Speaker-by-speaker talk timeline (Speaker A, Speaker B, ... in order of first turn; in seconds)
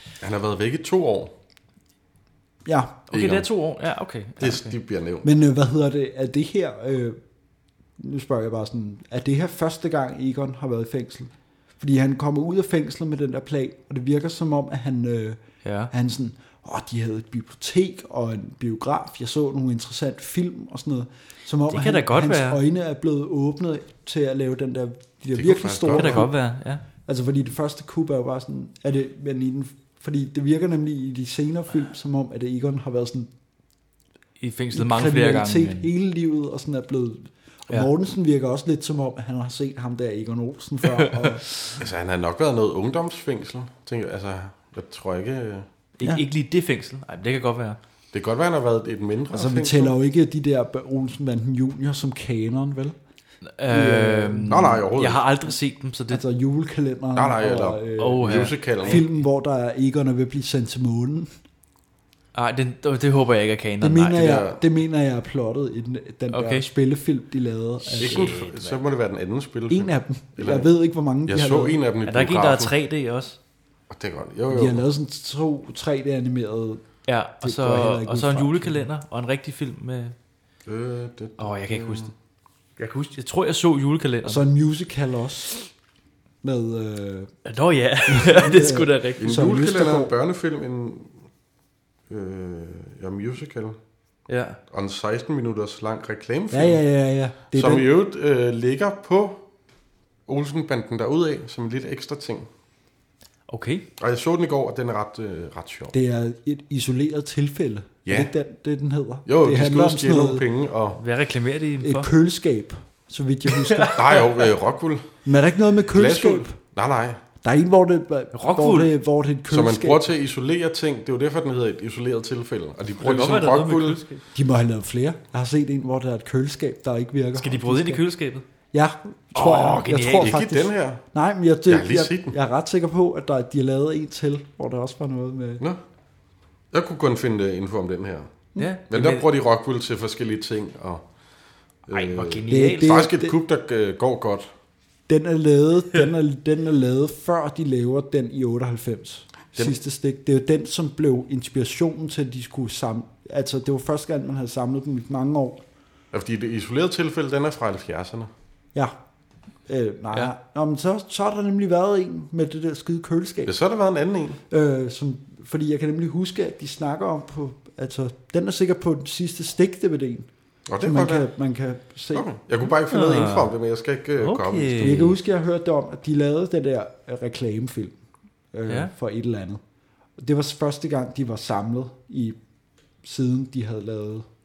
Speaker A: 0.2-1.3, 3.1-3.5, 4.4-5.3, 25.3-26.3, 41.8-45.7, 48.1-49.9, 54.5-55.2, 57.1-59.0, 64.2-64.6, 68.0-70.7, 71.2-72.7, 73.9-74.8, 80.7-82.1, 89.2-91.1, 92.1-93.8, 94.7-96.8, 97.5-99.4, 100.3-102.5, 104.0-105.9, 108.0-108.3, 109.2-111.0, 113.9-115.1, 115.9-117.2, 119.5-124.0, 130.2-131.0, 131.7-132.3, 136.7-138.3, 138.9-141.0, 141.9-144.5, 156.1-158.3, 163.4-164.4, 170.7-171.3, 172.1-175.1
Speaker B: 2.6-3.0, 5.2-7.2, 8.0-15.4, 15.9-26.3, 27.0-33.3, 34.7-41.4, 49.3-53.0, 53.6-54.5, 56.1-61.3, 63.8-68.5, 69.7-71.8, 74.5-78.9, 84.2-85.6, 86.4-87.3, 88.1-90.1, 96.5-97.9, 105.9-110.5, 111.8-114.2, 115.2-116.5, 117.4-120.1, 124.3-128.0, 128.7-135.6, 142.5-143.3, 145.1-155.6, 159.7-163.5, 164.5-170.3, 170.8-172.2, 174.8-178.0, 178.5-179.6, 180.2-182.4, 183.0-184.3
Speaker C: 3.1-4.7, 15.6-15.9, 21.7-22.6, 25.9-26.8, 34.4-35.9, 40.8-41.4, 46.0-47.8, 53.4-56.2, 58.0-59.0, 62.3-64.3, 66.3-66.7, 68.0-68.8, 72.0-73.4, 77.0-80.1, 81.4-82.1, 82.8-84.4, 87.4-89.3, 94.3-94.6, 103.5-103.9, 110.9-112.1, 118.3-118.9, 123.0-124.2, 127.4-128.4, 129.3-130.3, 138.6-139.2, 141.9-142.9, 172.9-173.5, 174.2-175.1